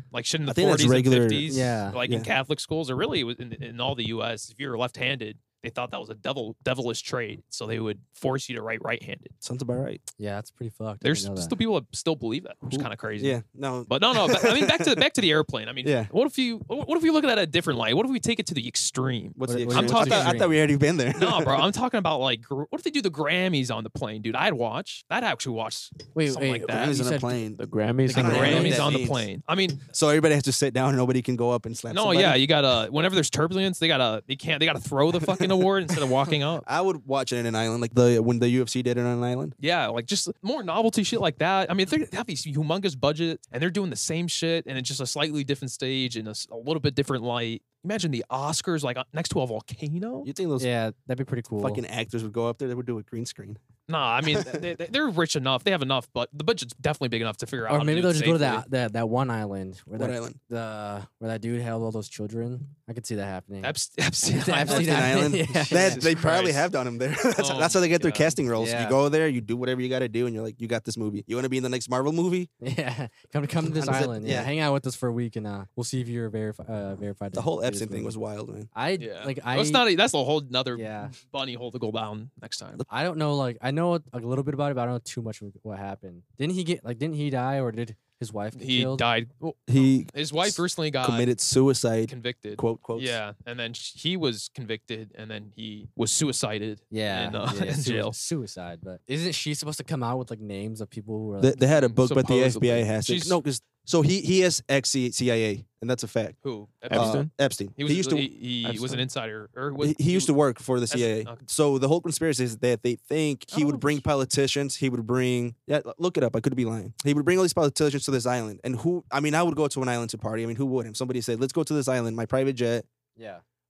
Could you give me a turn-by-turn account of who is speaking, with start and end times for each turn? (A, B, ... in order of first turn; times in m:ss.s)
0:00.1-0:09.3 A
0:00.4-0:02.3 B
0:01.5-0:02.0 C
0:09.4-0:10.0 B
0:10.2-0:11.5 C
0:11.0-0:20.4 A
0:12.7-0:15.0 B
0:15.8-0:16.1 B
0:19.4-0:21.7 B
0:19.5-0:20.5 C
0:21.1-0:27.0 A
0:26.1-0:27.5 C
0:26.6-0:27.6 B
0:27.6-0:28.7 D
0:28.0-0:28.9 C
0:28.1-0:29.3 B
0:28.1-0:29.9 A
0:29.9-0:32.4 B
0:31.9-0:36.6 A
0:35.2-0:39.6 B
0:39.6-0:50.3 A
0:50.2-0:50.7 B
0:50.6-0:51.8 C
0:51.6-0:53.6 B
0:53.9-0:58.6 A
0:54.2-0:54.6 B
0:57.7-1:06.0 C
1:00.0-1:00.4 B
1:03.6-1:06.7 A
1:04.6-1:12.5 B
1:07.3-1:08.4 A
1:08.6-1:09.0 C
1:12.6-1:18.1 C
1:13.7-1:14.5 B
1:17.3-1:18.7 B
1:18.7-1:19.8 C
1:19.0-1:22.8 A
1:20.7-1:21.1 C
1:22.9-1:29.0 C
1:28.5-1:31.3 A
1:29.7-1:33.2 B
1:32.1-1:38.2 A
1:36.9-1:41.6 C
1:41.4-1:46.4 B
1:41.7-1:43.4 A
1:46.4-1:50.3 A
1:46.9-1:47.3 D
1:46.9-1:48.3 B
1:48.6-1:49.1 D
1:49.8-2:02.8 B
1:50.9-1:51.4 A
1:53.5-1:54.0 A
2:03.2-2:03.4 C